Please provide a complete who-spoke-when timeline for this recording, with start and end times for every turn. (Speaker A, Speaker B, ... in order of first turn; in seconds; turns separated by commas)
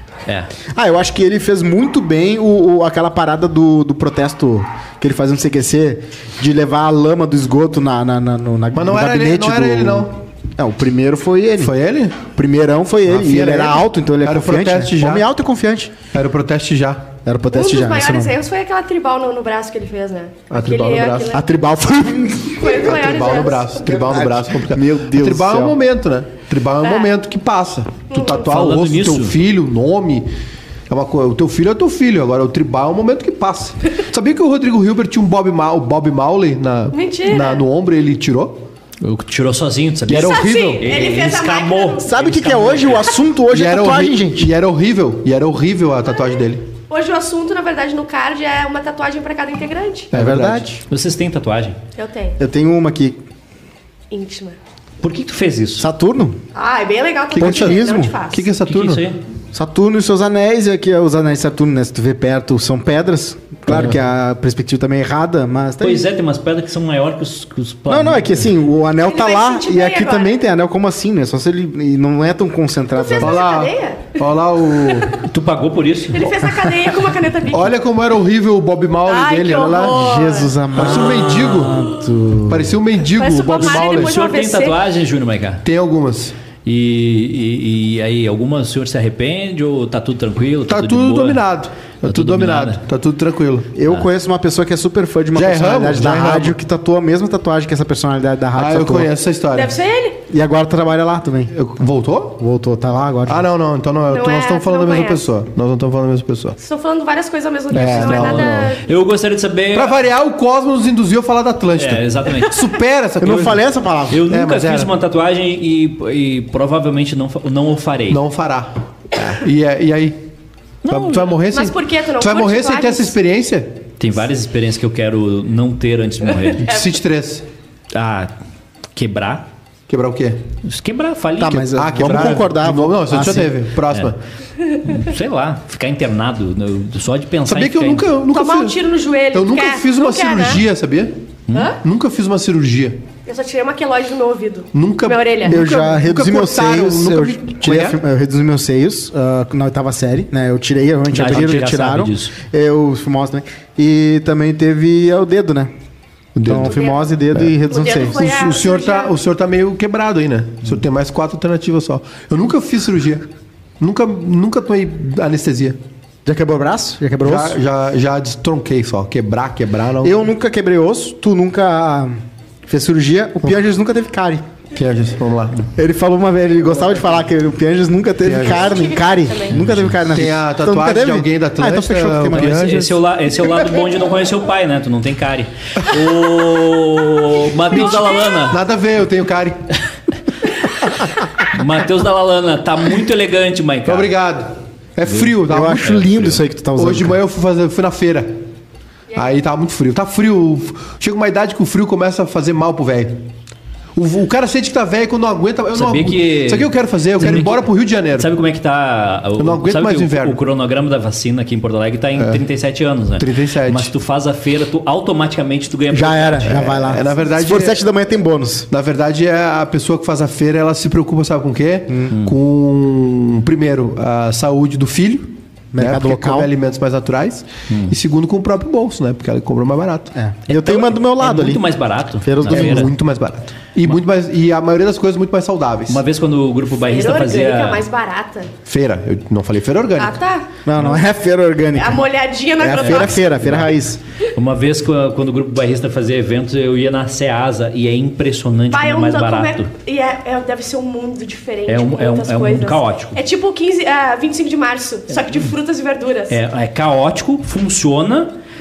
Speaker A: 0.3-0.5, Speaker B: 0.8-15.9, Speaker C: 8.7-10.1, Speaker C: 11.6-12.2, Speaker C: 13.1-15.2, Speaker C: 16.1-17.1, Speaker B: 17.2-18.4, Speaker D: 17.5-21.5, Speaker C: 20.5-21.4, Speaker B: 21.3-25.8, Speaker D: 22.6-23.8, Speaker C: 22.7-30.3, Speaker D: 26.8-27.1, Speaker D: 28.1-28.5, Speaker A: 28.4-29.4, Speaker C: 30.9-38.6, Speaker D: 36.9-37.6, Speaker A: 39.0-43.1, Speaker C: 40.1-40.9, Speaker D: 40.1-42.1, Speaker B: 42.1-44.5, Speaker C: 43.5-46.6, Speaker D: 46.9-50.1, Speaker C: 50.1-50.8, Speaker B: 50.1-50.8, Speaker A: 50.9-51.8, Speaker D: 52.0-52.4, Speaker B: 52.4-53.2, Speaker D: 54.1-54.6, Speaker A: 55.0-55.9, Speaker B: 55.8-56.4, Speaker D: 56.5-58.5, Speaker C: 57.4-59.1, Speaker B: 57.4-58.1, Speaker A: 58.6-59.2, Speaker B: 59.5-66.1, Speaker A: 65.8-68.5, Speaker B: 67.9-73.4, Speaker D: 69.0-70.3, Speaker D: 73.0-74.2, Speaker C: 73.2-75.2, Speaker D: 74.8-75.0, Speaker A: 75.2-76.4, Speaker D: 76.1-77.7, Speaker C: 77.5-80.0, Speaker D: 79.1-80.6, Speaker B: 79.8-82.8, Speaker C: 80.8-81.9, Speaker A: 80.8-81.8, Speaker C: 82.5-84.1, Speaker D: 83.1-84.8, Speaker A: 83.6-85.7, Speaker C: 85.7-86.3, Speaker A: 86.7-91.4, Speaker C: 90.7-93.7, Speaker A: 92.0-92.8, Speaker B: 93.8-99.1, Speaker C: 95.3-96.5, Speaker C: 98.5-99.8, Speaker D: 99.5-100.2, Speaker B: 100.3-101.5, Speaker C: 101.5-102.4, Speaker B: 102.4-103.5, Speaker C: 103.3-106.6, Speaker D: 104.1-105.2, Speaker D: 106.6-108.8, Speaker C: 107.7-108.7, Speaker A: 107.7-110.0, Speaker C: 109.7-113.6, Speaker A: 111.8-112.6, Speaker B: 113.2-114.3, Speaker A: 114.1-118.2, Speaker C: 114.2-114.9, Speaker C: 118.1-120.2, Speaker A: 120.8-121.4, Speaker C: 120.9-123.8, Speaker D: 121.5-123.2, Speaker A: 124.0-126.7, Speaker C: 126.6-127.5, Speaker A: 127.9-128.3, Speaker A: 128.9-129.5, Speaker C: 129.9-130.4, Speaker A: 130.7-131.7, Speaker B: 131.4-133.6, Speaker C: 131.5-134.2, Speaker A: 134.8-138.1, Speaker C: 137.5-138.8, Speaker D: 138.3-140.6, Speaker C: 139.3-141.1, Speaker D: 141.5-141.8, Speaker C: 141.8-143.0, Speaker D: 143.3-145.6, Speaker C: 144.7-148.0, Speaker B: 145.5-155.7, Speaker A: 151.1-152.3, Speaker C: 156.3-156.8, Speaker B: 156.4-158.2, Speaker D: 156.5-157.1, Speaker D: 157.7-159.1, Speaker C: 158.1-163.2, Speaker C: 163.8-165.8, Speaker B: 166.3-167.6, Speaker C: 167.2-170.3, Speaker B: 170.0-172.2, Speaker B: 172.7-174.4, Speaker C: 174.7-175.7, Speaker B: 175.8-182.9, Speaker C: 178.2-178.8, Speaker D: 178.4-179.6, Speaker A: 179.5-180.0, Speaker C: 180.1-182.9, Speaker A: 182.3-188.6, Speaker C: 187.7-189.6, Speaker A: 191.4-194.1, Speaker C: 193.8-196.1, Speaker B: 195.4-197.2, Speaker A: 195.8-196.4, Speaker C: 196.8-198.3, Speaker C: 199.1-203.2, Speaker C: 204.0-208.3, Speaker A: 205.7-216.6, Speaker C: 209.4-210.4, Speaker C: 213.2-213.9, Speaker B: 215.9-218.7, Speaker C: 216.5-217.8, Speaker C: 218.7-230.1, Speaker A: 222.1-222.4, Speaker B: 225.7-226.5, Speaker A: 227.7-227.9, Speaker B: 230.2-231.6, Speaker A: 230.5-232.9, Speaker B: 232.2-232.9, Speaker C: 232.5-236.0, Speaker A: 235.9-237.8, Speaker D: 236.8-238.5, Speaker C: 238.7-240.2, Speaker D: 240.0-240.5, Speaker B: 240.7-242.1, Speaker D: 241.7-243.3, Speaker B: 242.6-244.0, Speaker A: 242.8-243.8, Speaker A: 244.3-249.7, Speaker D: 248.7-256.4, Speaker A: 251.7-253.2, Speaker A: 256.3-258.3